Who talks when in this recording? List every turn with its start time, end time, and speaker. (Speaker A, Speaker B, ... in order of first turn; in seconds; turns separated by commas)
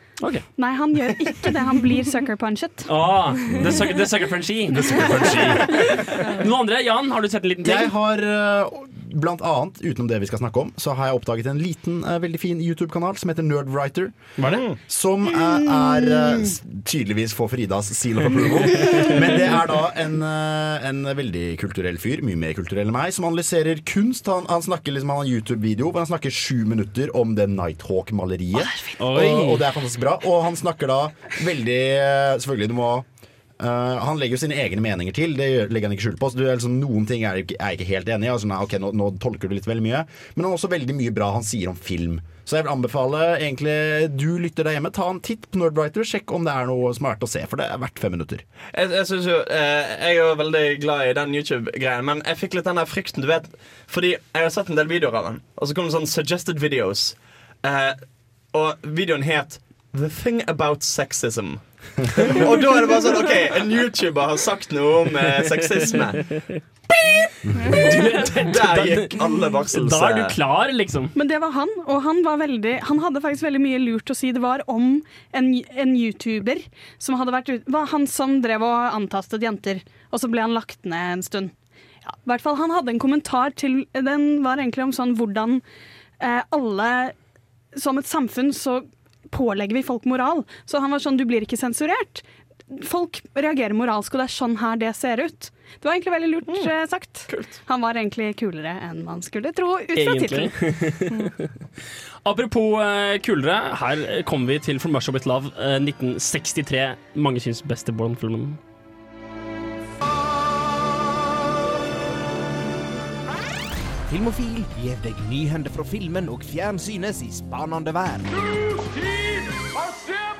Speaker A: 0.2-0.5, Speaker B: 0.6-2.9, Speaker A: 2.9-7.9, Speaker C: 4.7-6.0, Speaker C: 7.6-33.1, Speaker A: 14.4-14.7, Speaker D: 14.5-14.8, Speaker A: 29.0-29.6, Speaker C: 33.6-48.4, Speaker D: 48.7-58.0, Speaker D: 58.5-66.3, Speaker A: 67.0-69.2, Speaker C: 67.5-67.8, Speaker D: 68.3-70.4, Speaker A: 69.7-71.1, Speaker B: 71.2-81.5, Speaker B: 82.1-85.6, Speaker B: 86.2-87.2, Speaker B: 87.8-100.5, Speaker A: 97.3-97.6, Speaker A: 100.0-101.3, Speaker A: 102.2-108.6, Speaker E: 114.1-118.3